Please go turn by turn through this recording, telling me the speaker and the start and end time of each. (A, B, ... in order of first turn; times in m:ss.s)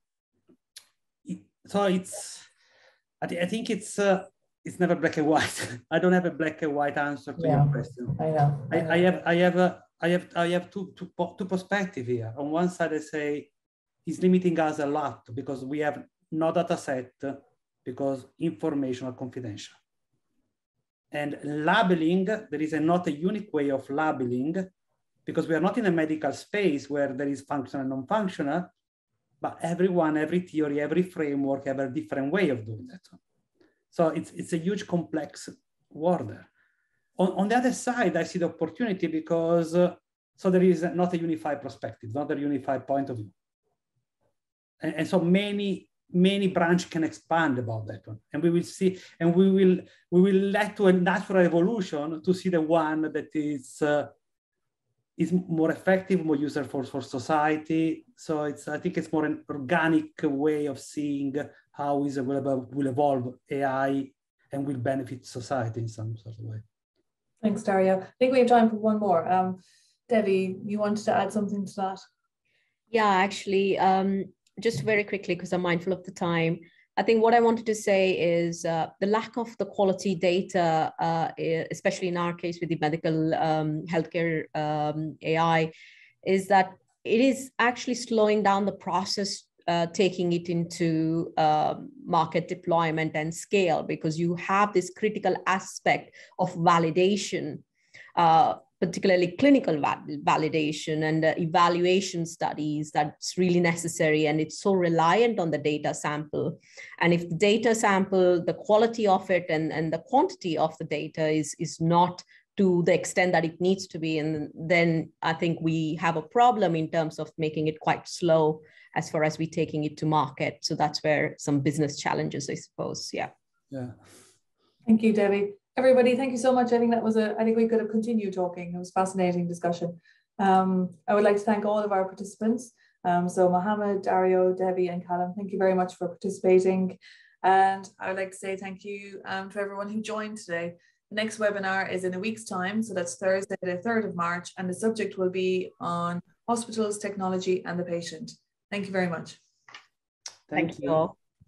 0:01.2-0:02.5 A
0:03.2-0:08.2 A
0:07.4-0:09.0 B
0:08.7-0:13.5 A
0:14.0-0:19.8 A
0:21.1-0:24.7 A
0:25.3-0:28.7 A
0:29.4-0:33.2 A
0:33.9-0:36.5 A
0:37.2-0:43.3 A
0:44.8-0:54.1 A
0:55.2-1:06.6 A
1:07.4-1:12.0 B
1:12.9-1:25.7 C
1:26.2-1:37.6 C
1:38.2-2:03.3 C
2:03.7-2:04.0 A
2:04.8-2:29.4 B
2:30.5-2:31.0 A
2:30.6-2:31.1 C